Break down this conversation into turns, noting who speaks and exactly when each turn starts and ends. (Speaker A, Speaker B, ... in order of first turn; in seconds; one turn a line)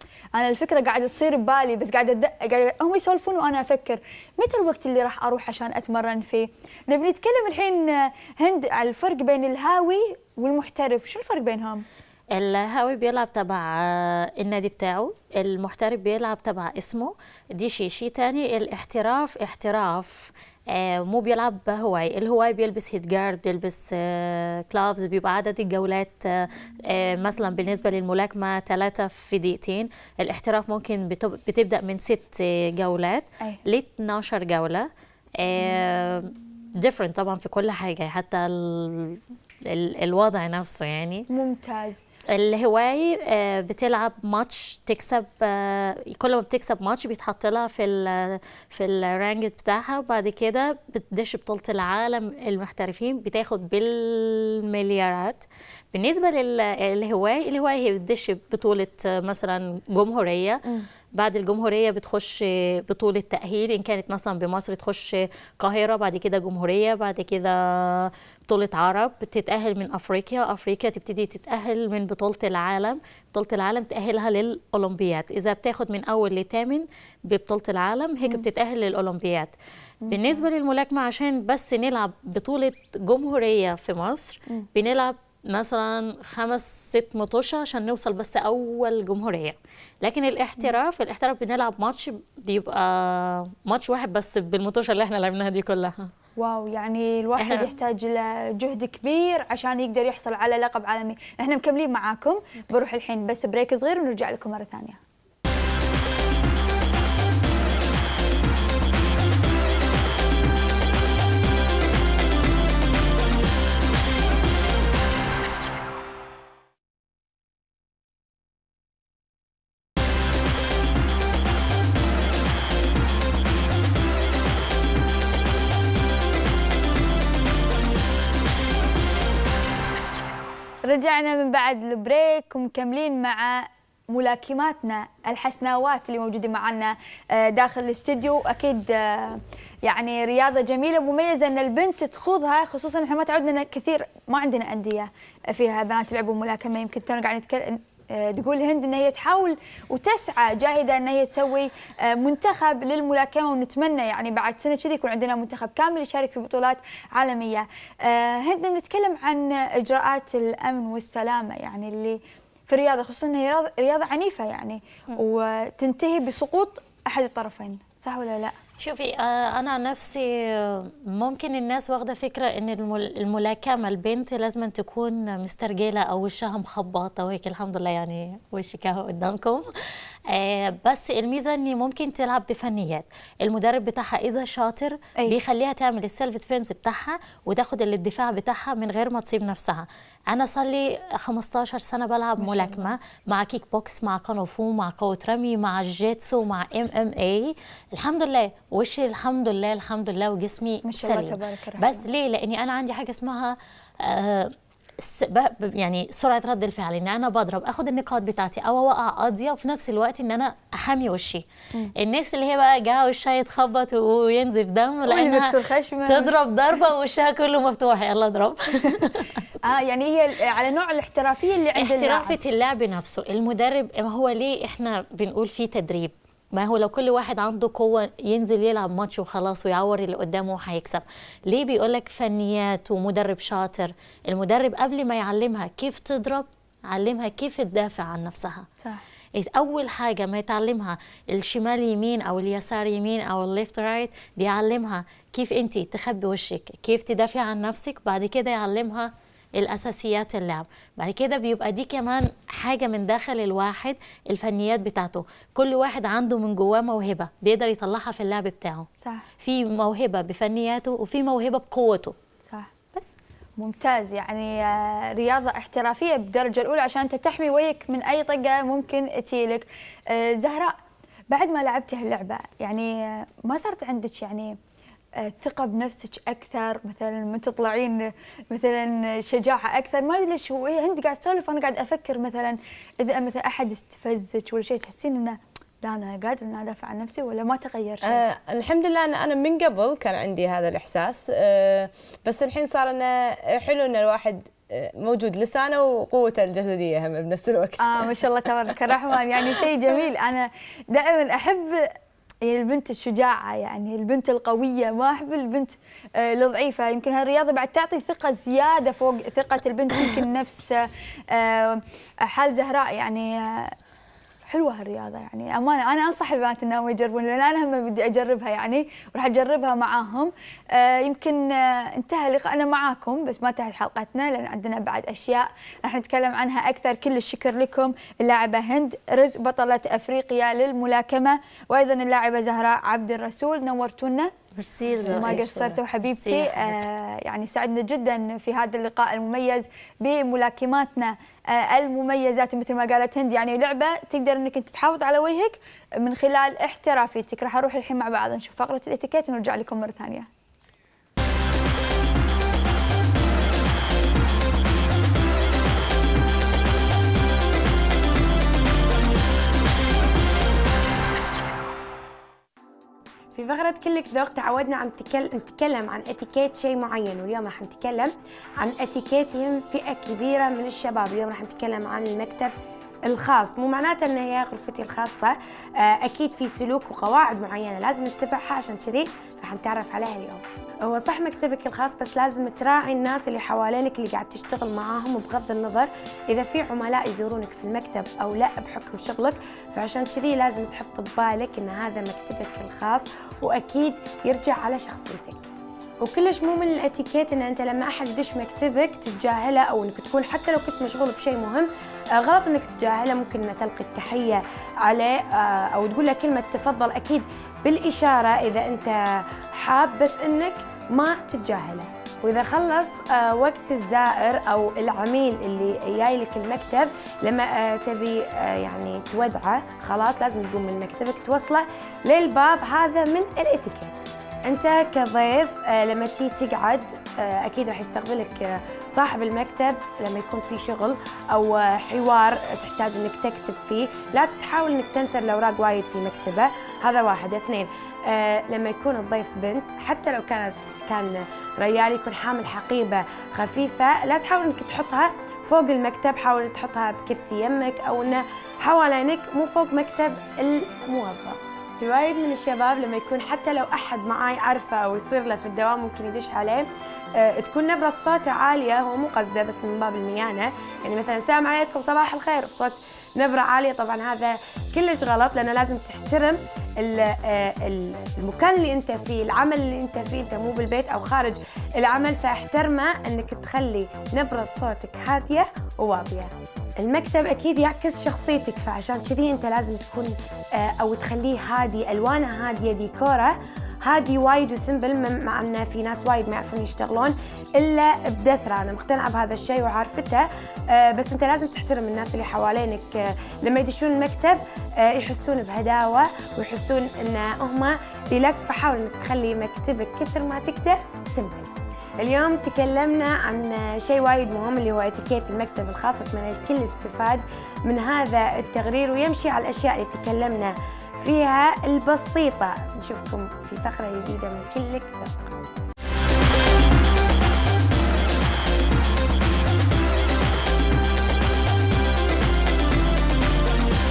Speaker A: 0.3-11.8
Speaker B: 12.3-34.9
Speaker B: 35.4-41.2
Speaker A: 41.3-42.0
Speaker B: 42.3-79.5
Speaker A: 80.0-80.4
Speaker B: 80.1-96.1
Speaker A: 96.4-105.0
Speaker B: 97.4-97.7
Speaker A: 130.8-168.5
Speaker B: 168.8-179.7
Speaker B: 180.3-211.4
Speaker A: 192.4-192.9
Speaker A: 200.8-202.0
Speaker B: 212.0-219.4
Speaker A: 215.0-216.3
Speaker A: 219.6-222.4
Speaker B: 221.8-238.7
Speaker B: 239.3-258.9
Speaker B: 259.4-262.1
Speaker A: 262.5-262.9
Speaker A: 263.6-270.8
Speaker A: 271.3-274.6
Speaker A: 275.2-288.2
Speaker C: 288.0-298.1
Speaker A: 297.8-313.7
Speaker A: 314.4-334.3
Speaker B: 334.6-336.8
Speaker C: 335.0-335.6
Speaker A: 335.0-350.3
Speaker D: 363.3-372.5
Speaker D: 373.1-395.4
Speaker D: 396.0-515.3